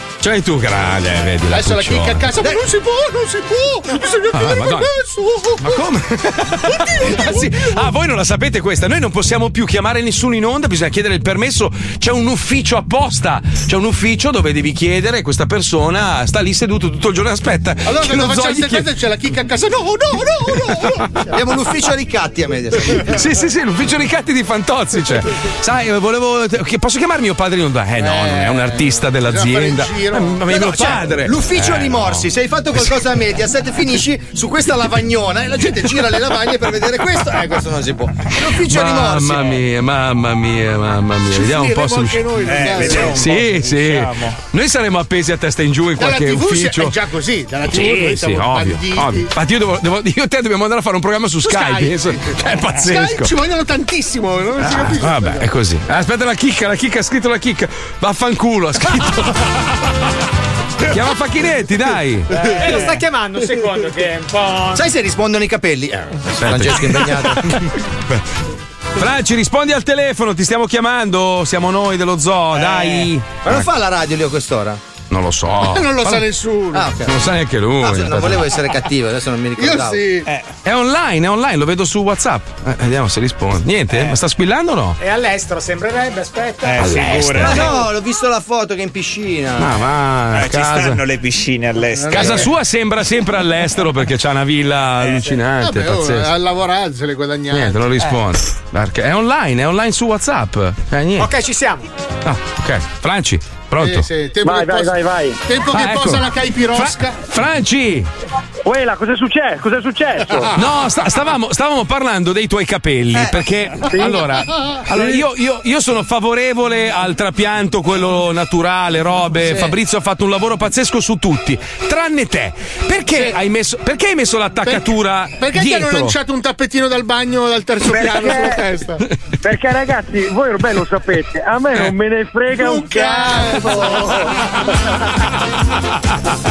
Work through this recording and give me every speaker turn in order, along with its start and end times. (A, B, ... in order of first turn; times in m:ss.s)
0:00.2-0:02.3 A
0:01.5-0:05.8 B
0:02.4-0:02.6 C
0:04.3-0:04.9 A
0:05.6-0:18.9 A
0:06.8-0:07.4 B
0:17.9-0:21.2 B
0:21.3-0:23.2 C
0:23.0-0:33.0 A
0:28.0-0:30.4 B
0:30.5-0:39.6 C
0:38.6-0:47.0 A
0:41.3-0:43.3 B
0:42.4-0:44.4 D
0:46.0-0:49.3 B
0:47.7-0:53.3 A
0:51.4-0:55.5 B
0:54.6-0:59.7 A
1:00.9-1:02.4 A
1:02.3-1:04.8 E
1:04.7-1:07.6 C
1:06.3-1:08.2 A
1:09.0-1:13.7 A
1:12.5-1:13.1 D
1:13.4-1:14.8 C
1:15.1-1:16.2 A
1:15.6-1:16.9 B
1:16.7-1:17.2 C
1:17.0-1:18.5 A
1:17.8-1:20.1 C
1:19.6-1:20.3 B
1:20.6-1:25.0 A
1:25.0-1:26.9 E
1:26.6-1:27.7 D
1:26.8-1:27.7 A
1:27.4-1:29.8 C
1:29.6-1:31.0 A
1:30.3-1:32.5 D
1:32.1-1:36.3 A
1:35.6-1:37.9 B
1:37.5-1:41.3 A
1:41.2-1:41.8 E
1:42.2-1:44.1 A
1:43.8-1:47.2 B
1:44.4-1:45.4 F
1:45.7-1:48.1 A
1:48.6-1:50.5 F
1:50.5-2:06.2 A
1:53.9-1:54.2 F
1:59.5-1:59.7 B
2:03.1-2:03.4 B
2:04.6-2:09.0 B
2:07.9-2:08.7 F
2:09.4-2:14.4 F
2:12.5-2:14.2 B